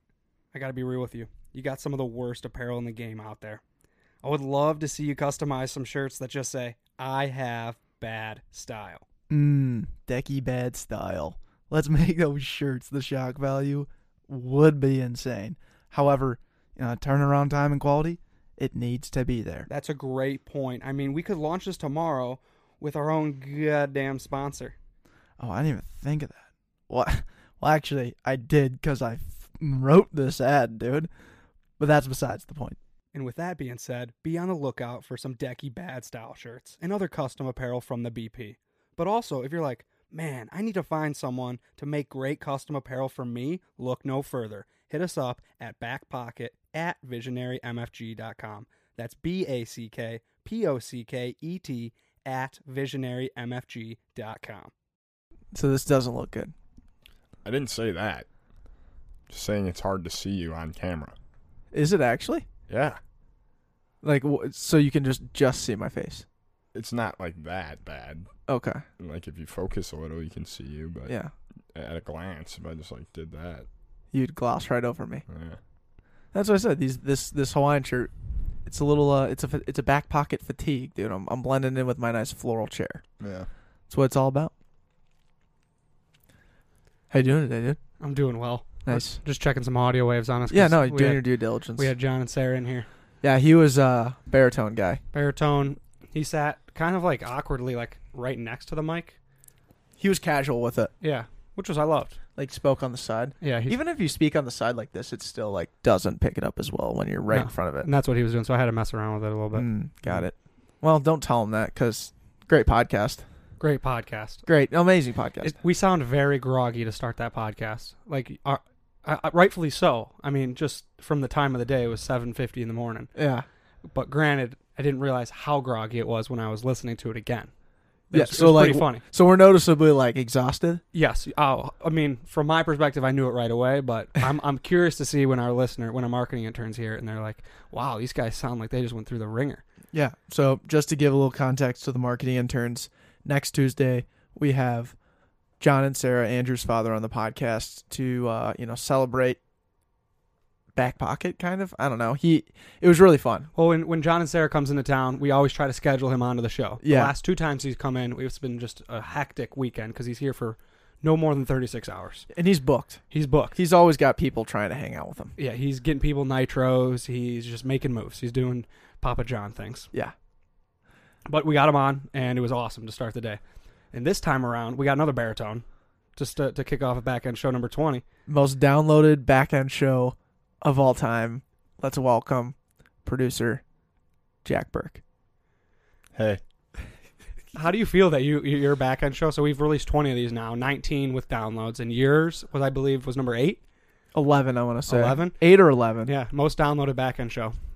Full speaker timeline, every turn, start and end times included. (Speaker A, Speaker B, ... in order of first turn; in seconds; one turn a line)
Speaker A: 0.5-3.6
Speaker A: 4.2-9.0
Speaker B: 9.3-19.7
Speaker A: 19.7-24.7
Speaker B: 25.4-31.1
Speaker B: 31.8-32.8
Speaker A: 33.1-54.7
Speaker B: 55.5-56.5
Speaker C: 57.4-58.2
Speaker C: 59.3-61.1
Speaker B: 61.7-62.5
Speaker C: 62.7-63.0
Speaker B: 64.0-66.2
Speaker C: 66.7-68.3
Speaker B: 68.5-68.8
Speaker C: 69.0-71.2
Speaker B: 71.1-71.3
Speaker C: 71.7-73.7
Speaker B: 74.1-75.2
Speaker C: 75.3-75.6
Speaker B: 76.3-78.1
Speaker B: 78.6-83.0
Speaker C: 83.2-83.5
Speaker B: 83.9-84.5
Speaker B: 87.1-87.8
Speaker A: 88.0-92.9
Speaker B: 88.8-89.2
Speaker B: 90.5-91.9
Speaker B: 93.2-95.0
Speaker A: 95.1-99.2
Speaker B: 100.0-100.9
Speaker A: 101.0-102.2
Speaker B: 102.3-107.9
Speaker A: 103.4-103.8
Speaker A: 107.3-110.2
Speaker B: 109.5-113.2
Speaker A: 113.6-114.5
Speaker B: 114.5-115.6
Speaker A: 115.4-123.1
Speaker B: 123.1-123.4
Speaker A: 123.9-127.5
Speaker A: 128.1-129.0
Speaker B: 128.1-130.8
Speaker A: 130.9-139.6
Speaker B: 139.9-144.9
Speaker B: 145.6-149.4
Speaker B: 150.7-153.5
Speaker A: 153.5-162.3
Speaker B: 156.8-157.1
Speaker B: 162.3-165.3
Speaker A: 163.1-163.6
Speaker A: 165.4-169.9
Speaker A: 171.3-173.4
Speaker A: 173.9-178.0
Speaker B: 178.3-183.6
Speaker B: 184.4-185.0
Speaker C: 186.1-186.4
Speaker A: 187.5-193.6
Speaker B: 194.1-196.1
Speaker A: 194.9-195.4
Speaker A: 196.0-197.6